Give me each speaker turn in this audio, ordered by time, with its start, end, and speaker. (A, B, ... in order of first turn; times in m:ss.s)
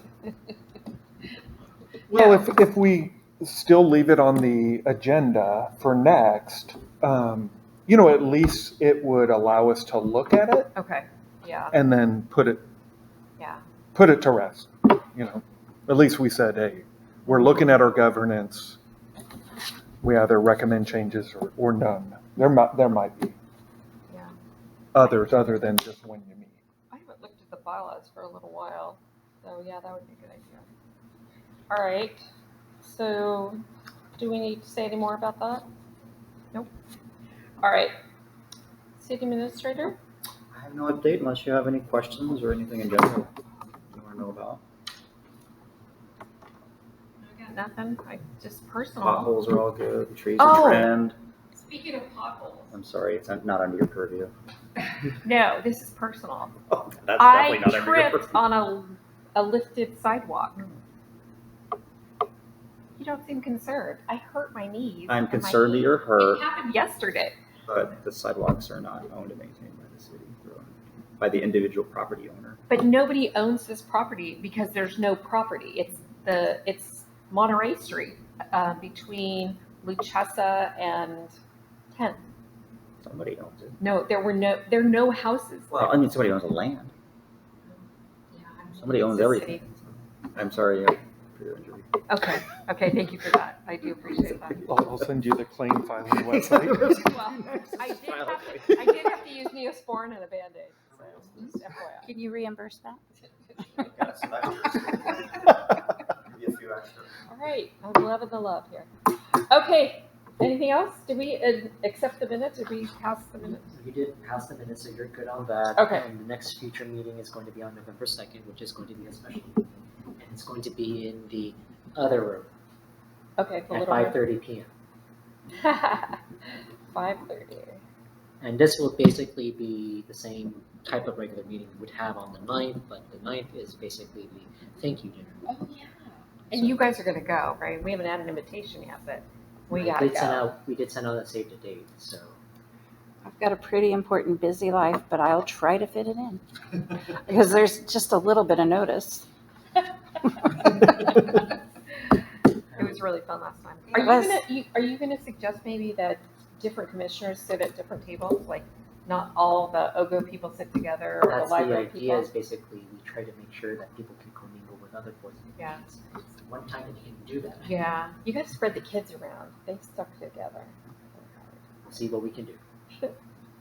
0:02.1-0:10.7 A
0:02.1-0:02.5 B
0:10.8-0:11.8 B
0:11.7-0:12.6 A
0:14.0-0:18.8 A
0:20.0-0:23.4 A
0:24.9-0:26.6 A
0:26.9-0:30.7 B
0:31.7-0:32.2 B
0:32.8-0:33.6 B
0:34.2-0:35.7 B
0:37.6-0:37.9 B
0:39.0-0:40.0 B
0:40.5-0:43.3 C
0:43.9-0:44.6 C
0:47.2-0:49.3 B
0:49.0-0:51.2 C
0:50.4-0:50.9 B
0:51.6-0:52.7 B
0:52.7-0:54.3 C
0:55.2-0:56.5 B
0:56.7-0:58.4 C
0:57.2-1:00.8 B
1:03.0-1:07.3 B
1:05.1-1:06.4 C
1:07.7-1:12.6 C
1:12.7-1:21.3 B
1:21.9-1:22.2 B
1:23.0-1:23.8 C
1:23.8-1:25.8 B
1:25.7-1:26.9 C
1:27.7-1:29.8 B
1:28.8-1:29.6 C
1:30.4-1:31.9 C
1:32.1-1:34.7 B
1:34.7-1:37.0 A
1:36.4-1:38.9 C
1:36.8-1:42.1 B
1:40.9-1:41.5 C
1:42.0-1:43.0 D
1:43.8-1:45.5 C
1:46.3-1:47.1 C
1:47.3-1:53.7 B
1:53.4-2:02.5 E
1:55.8-1:56.0 B
2:03.4-2:04.2 B
2:03.7-2:04.7 E
2:05.6-2:06.2 B
2:06.9-2:07.8 B
2:08.4-2:15.6 E
2:16.5-2:16.8 E
2:16.5-2:20.5 B
2:19.7-2:22.4 E
2:23.2-2:26.4 D
2:27.2-2:29.3 D
2:32.8-2:42.3 B
2:34.0-2:34.4 D
2:41.2-2:47.7 E
2:45.6-2:45.8 B
2:47.6-2:51.6 B
2:51.8-2:52.6 E